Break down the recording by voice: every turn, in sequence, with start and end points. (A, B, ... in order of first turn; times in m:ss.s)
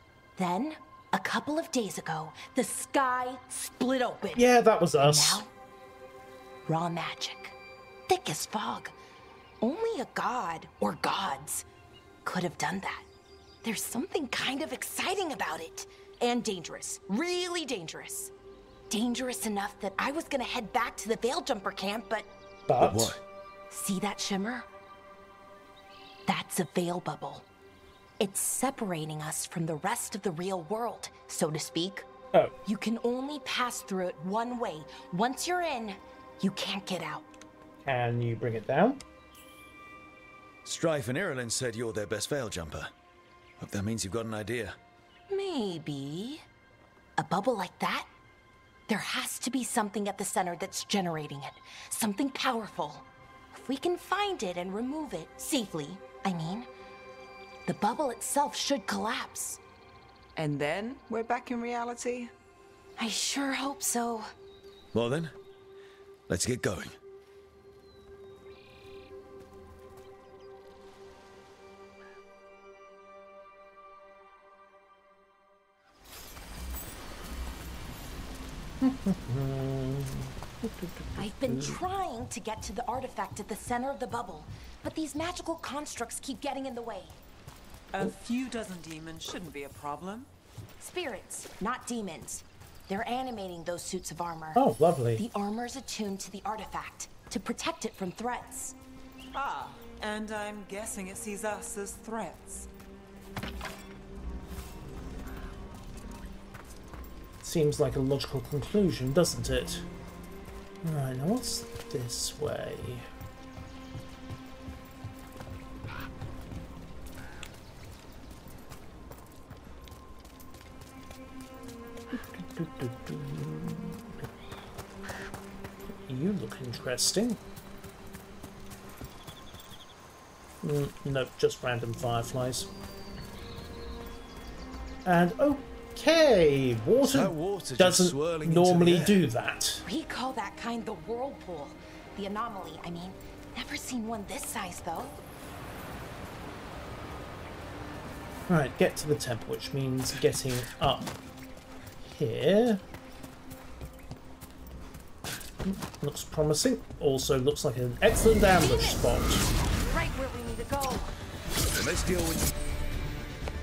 0:00.4-0:04.5 A
0:04.4-0:05.4 B
0:05.0-0:05.5 A
0:06.6-0:07.5 A
0:08.1-0:08.9 A
0:09.6-0:11.6 A
0:12.2-0:13.0 A
0:13.6-0:18.3 A
0:18.9-0:22.3 A
0:22.7-0:23.2 B
0:22.8-0:23.2 C
0:23.7-0:24.7 A
0:26.3-0:27.4 A
0:28.2-0:32.1 A
0:32.6-0:37.3 A
0:37.8-0:39.0 B
0:40.6-0:42.9 C
0:43.6-0:44.8 C
0:45.3-0:46.4 A
0:47.2-0:48.1 A
0:48.9-0:56.7 A
0:57.6-0:59.6 A
1:00.4-1:02.3 D
1:03.0-1:04.3 A
1:04.9-1:05.3 C
1:06.3-1:07.0 C
1:18.8-1:21.8 B
1:21.2-1:27.2 A
1:27.9-1:30.3 D
1:30.8-1:34.6 A
1:34.6-1:35.2 B
1:35.2-1:38.8 A
1:39.3-1:42.7 D
1:47.4-1:49.8 B
1:50.8-1:53.0 B
2:02.1-2:04.3 B
2:06.0-2:07.4 B
2:10.6-2:12.7 B
2:15.0-2:19.8 B
2:17.0-2:19.2 C
2:19.8-2:25.2 A
2:28.5-2:31.1 B
2:32.0-2:32.8 B
2:35.6-2:39.4 B
2:38.6-2:39.1 A
2:39.8-2:41.1 A
2:41.7-2:42.5 C